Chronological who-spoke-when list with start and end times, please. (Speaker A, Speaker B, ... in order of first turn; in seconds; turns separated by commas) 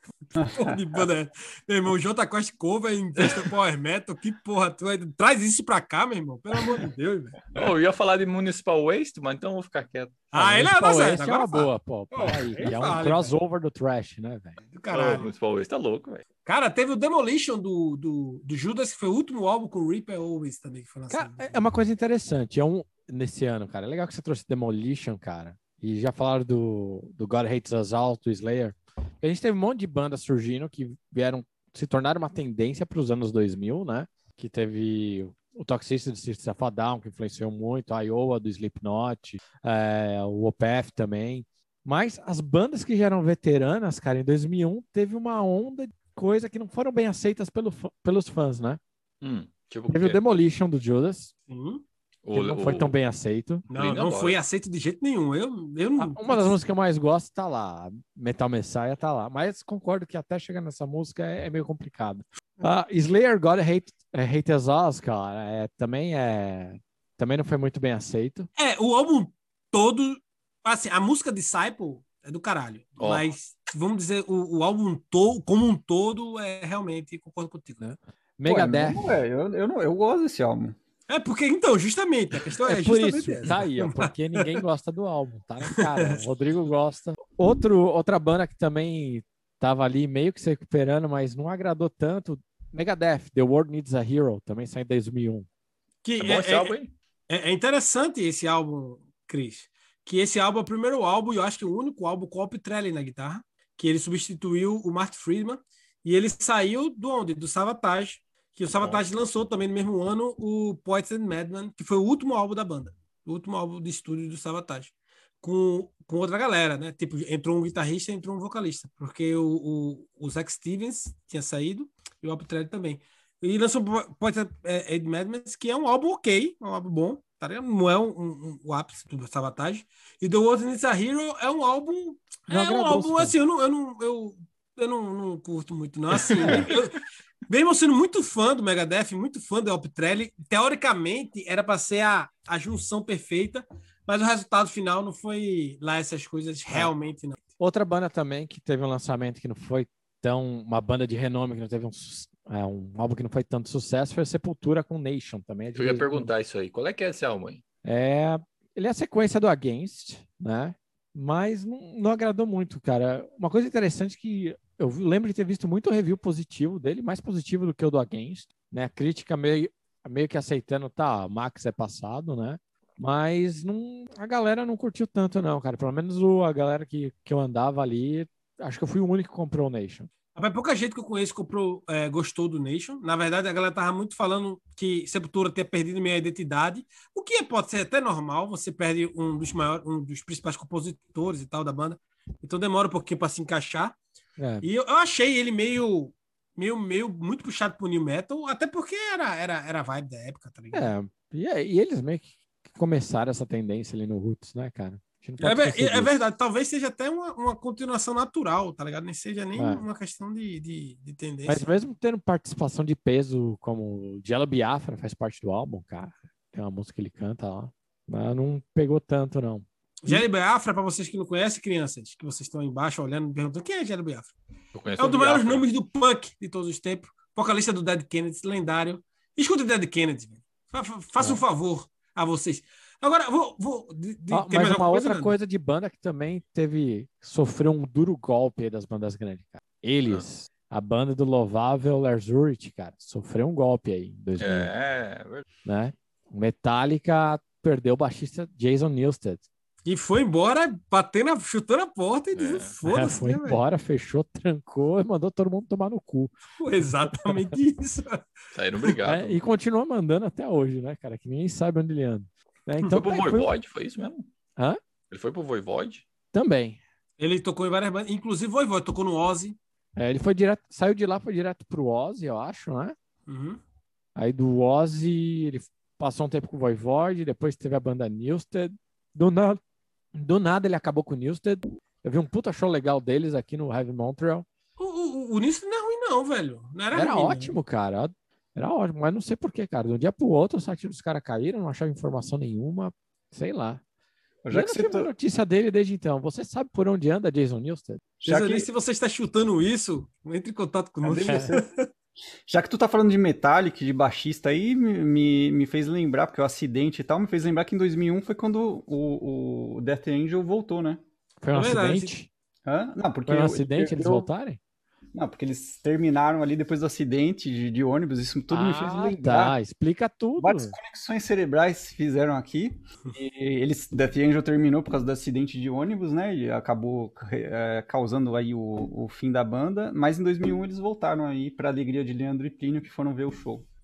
Speaker A: 0.4-0.8, Speaker B: 0.5-7.4, Speaker C: 3.2-3.5, Speaker C: 7.5-10.2, Speaker B: 10.3-13.3, Speaker D: 10.3-14.6, Speaker B: 14.7-15.3, Speaker C: 14.9-16.2, Speaker B: 16.4-21.6, Speaker D: 21.1-48.8, Speaker C: 49.2-50.2, Speaker D: 49.9-51.3, Speaker B: 51.5-51.8, Speaker C: 52.2-53.0, Speaker D: 52.3-53.6, Speaker B: 53.7-56.6, Speaker C: 53.7-54.4, Speaker D: 56.0-68.5, Speaker B: 68.6-77.8, Speaker C: 73.0-73.3, Speaker D: 77.8-79.2, Speaker A: 78.5-80.8, Speaker B: 81.1-84.6, Speaker D: 82.7-95.5, Speaker B: 85.7-86.2, Speaker B: 96.0-96.8, Speaker C: 96.2-96.9, Speaker B: 97.3-147.4, Speaker C: 108.8-109.0, Speaker D: 132.5-133.3, Speaker C: 136.4-136.7, Speaker D: 147.6-156.3, Speaker C: 155.8-157.6, Speaker D: 157.8-180.1, Speaker B: 180.4-194.0, Speaker D: 194.4-194.7, Speaker B: 194.6-200.9, Speaker D: 200.7-206.2, Speaker B: 205.4-211.6, Speaker D: 209.6-209.8, Speaker D: 211.5-220.3, Speaker B: 220.0-224.3, Speaker C: 224.7-225.7, Speaker B: 225.0-235.3, Speaker D: 234.3-244.7, Speaker C: 244.4-245.4, Speaker D: 245.7-249.4, Speaker B: 249.9-253.6, Speaker C: 252.3-252.7, Speaker D: 252.8-257.6, Speaker B: 256.6-258.2, Speaker C: 258.5-259.4, Speaker D: 259.1-263.5, Speaker C: 262.9-264.3, Speaker C: 265.1-266.0, Speaker D: 266.3-266.8, Speaker B: 267.2-269.6, Speaker D: 270.0-272.9, Speaker B: 273.3-273.6, Speaker D: 274.2-279.6, Speaker D: 280.1-284.5, Speaker B: 284.8-287.6, Speaker D: 286.9-293.8, Speaker A: 294.4-295.1, Speaker D: 294.5-298.0, Speaker A: 298.2-298.7, Speaker B: 298.2-301.9, Speaker A: 301.0-301.6, Speaker D: 301.2-301.6, Speaker A: 302.5-311.0, Speaker D: 311.4-312.3, Speaker B: 311.5-312.1, Speaker A: 312.7-314.3, Speaker D: 313.3-314.6, Speaker A: 315.1-319.6, Speaker D: 318.5-320.8, Speaker A: 320.4-333.6